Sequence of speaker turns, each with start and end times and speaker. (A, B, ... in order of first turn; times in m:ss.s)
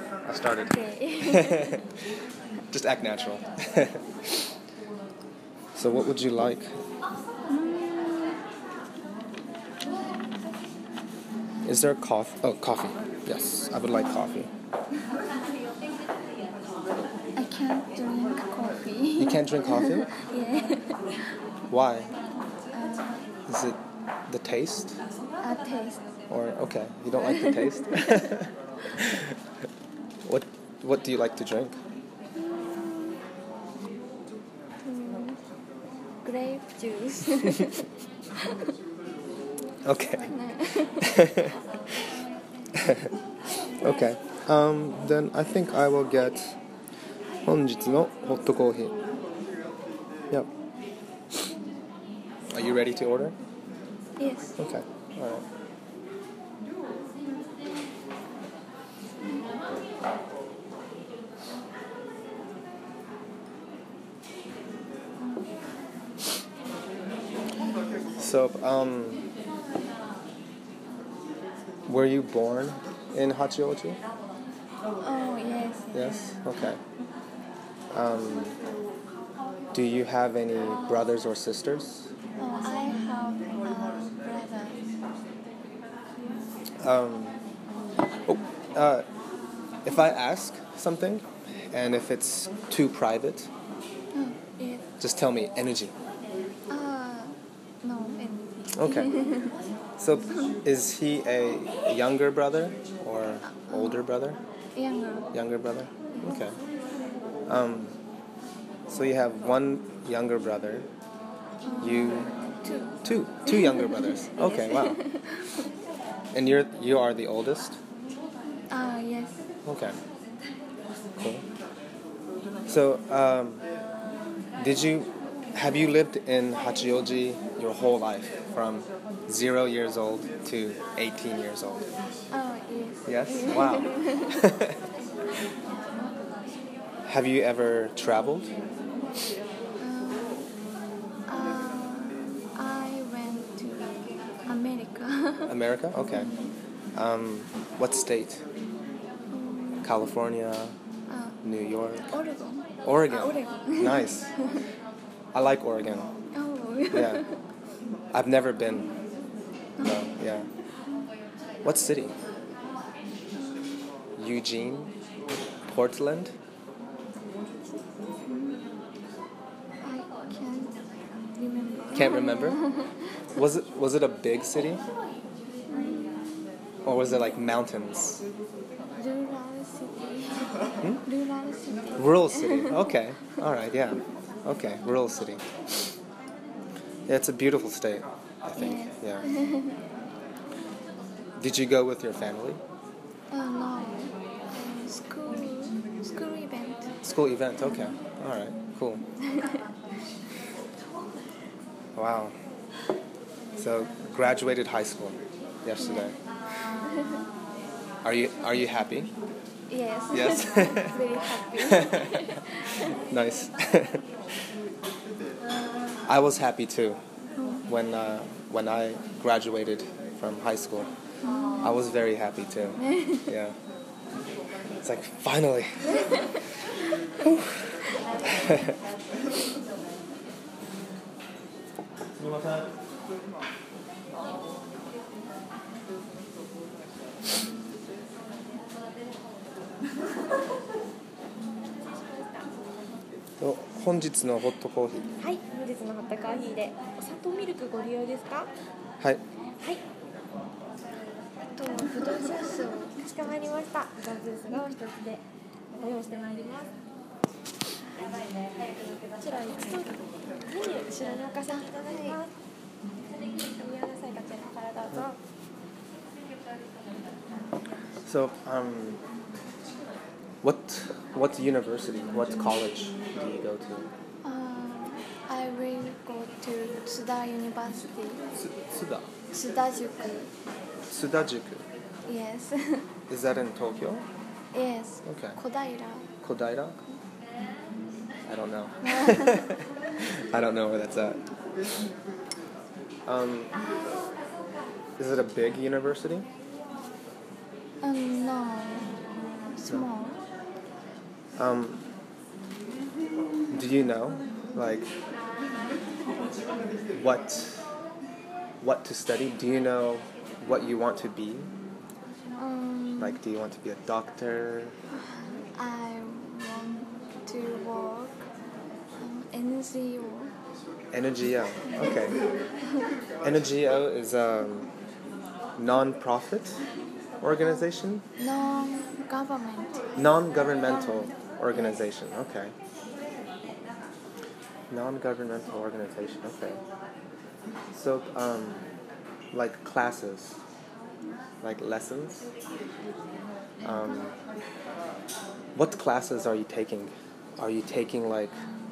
0:00.2-0:01.8 A
0:00.5-0:01.8 B
0:02.7-0:04.4 A
0:05.8-0:06.7 A
0:07.5-0:08.4 B
0:11.7-0:14.5 A
0:13.9-0:14.3 B
0:17.4-0:21.1 B
0:19.2-0:20.1 A
0:21.7-0:22.1 A
0:22.7-0:23.3 B
0:23.5-0:25.0 A
0:25.4-0:26.0 B
0:26.3-0:29.4 A
0:27.2-0:28.4 B
0:30.2-0:31.8 A
0:32.4-0:33.2 B
0:34.8-0:35.4 B
0:36.2-0:38.7 B
0:39.8-0:40.3 A
0:40.2-0:41.2 B
0:40.9-0:41.6 A
0:42.8-0:43.1 A
0:43.8-0:44.0 B
0:43.8-0:46.6 A
0:47.4-0:49.0 A
0:52.5-0:53.4 A
0:54.2-0:54.6 B
0:54.6-0:55.4 A
1:08.2-1:09.3 A
1:11.9-1:14.0 A
1:15.0-1:16.3 B
1:15.9-1:16.8 A
1:17.9-1:18.5 A
1:19.7-1:22.1 A
1:22.4-1:24.9 B
1:26.8-1:27.4 A
1:28.3-1:29.1 A
1:29.8-1:33.5 A
1:34.1-1:34.9 B
1:35.0-1:35.9 A
1:36.7-1:39.6 B
1:38.8-1:39.2 A
1:40.0-1:44.4 A
1:43.4-1:44.0 B
1:44.8-1:45.3 B
1:45.3-1:46.6 A
1:47.5-1:48.0 A
1:48.9-1:50.9 A
1:51.6-1:55.7 B
1:51.8-1:52.3 A
1:53.0-1:55.0 A
1:56.3-1:57.8 A
1:58.7-1:59.4 B
1:59.6-2:00.0 A
2:01.2-2:01.4 A
2:02.7-2:03.6 A
2:04.6-2:11.9 A
2:12.3-2:14.4 B
2:13.1-2:14.8 A
2:17.1-2:18.5 A
2:19.8-2:20.5 B
2:21.3-2:25.5 B
2:25.5-2:26.3 A
2:26.1-2:26.5 B
2:27.0-2:28.4 A
2:29.3-2:29.9 B
2:29.8-2:30.8 A
2:31.1-2:31.4 B
2:31.4-2:32.1 A
2:32.1-2:34.6 B
2:32.8-2:34.3 A
2:35.3-2:36.1 A
2:36.3-2:37.4 B
2:36.9-2:37.2 A
2:38.1-2:38.9 A
2:39.8-2:40.1 B
2:39.8-2:40.5 A
2:41.6-2:42.2 A
2:43.3-2:44.0 B
2:44.2-2:44.9 A
2:45.7-2:46.3 A
2:48.3-2:48.7 B
2:49.8-2:50.8 B
2:51.4-2:53.0 B
2:51.9-2:52.6 A
2:53.3-2:54.8 A
2:55.7-2:56.6 B
2:56.8-2:58.2 A
2:59.0-3:02.8 B
3:02.0-3:05.4 A
3:07.1-3:09.3 A
3:08.6-3:09.8 B
3:11.4-3:12.6 A
3:13.3-3:16.9 B
3:17.0-3:19.0 A
3:17.6-3:18.0 B
3:19.2-3:19.6 B
3:22.0-3:22.4 A
3:23.6-3:26.2 A
3:25.8-3:26.2 B
3:28.0-3:29.1 A
3:29.7-3:33.0 B
3:30.1-3:31.0 A
3:31.6-3:32.4 A
3:33.0-3:34.0 A
3:36.0-3:37.0 A
3:37.4-3:37.7 B
3:37.7-3:40.9 A
3:41.2-3:41.8 B
3:41.6-3:43.6 A
3:42.8-3:43.3 B
3:44.8-3:46.3 A
3:47.2-3:48.8 A
3:52.2-3:52.7 A
4:03.4-4:05.1 A
4:05.2-4:08.5 C
4:11.5-4:13.0 B
4:11.7-4:16.7 C
4:19.2-4:22.3 C
4:21.5-4:22.2 B
4:23.4-4:25.2 C
4:28.1-4:29.0 A
4:30.4-4:33.9 A
4:34.2-4:38.3 B
4:38.4-4:39.1 A
4:39.3-4:40.3 B
4:40.9-4:41.6 A
4:42.1-4:42.9 B
4:43.1-4:44.1 A
4:44.5-4:46.1 B
4:45.1-4:45.4 A
4:46.2-4:46.8 A
4:48.3-4:51.2 A
4:48.8-4:49.6 B
4:53.1-4:53.6 A
4:55.0-4:56.3 A
4:57.8-4:58.9 B
4:59.5-5:00.2 B
5:01.4-5:01.8 A
5:03.5-5:04.9 A
5:06.9-5:07.7 A
5:08.6-5:11.5 A
5:12.4-5:13.2 B
5:13.0-5:14.8 A
5:15.6-5:18.2 B
5:19.0-5:20.4 B
5:20.9-5:22.2 A
5:21.7-5:22.1 B
5:23.2-5:24.7 A
5:25.6-5:26.6 A
5:27.2-5:28.0 A
5:28.2-5:30.0 B
5:30.0-5:32.5 A
5:30.6-5:31.8 B
5:34.7-5:36.6 A
5:37.7-5:38.6 A
5:39.3-5:40.4 A
5:41.4-5:42.3 A
5:43.6-5:44.1 A
5:45.6-5:48.4 A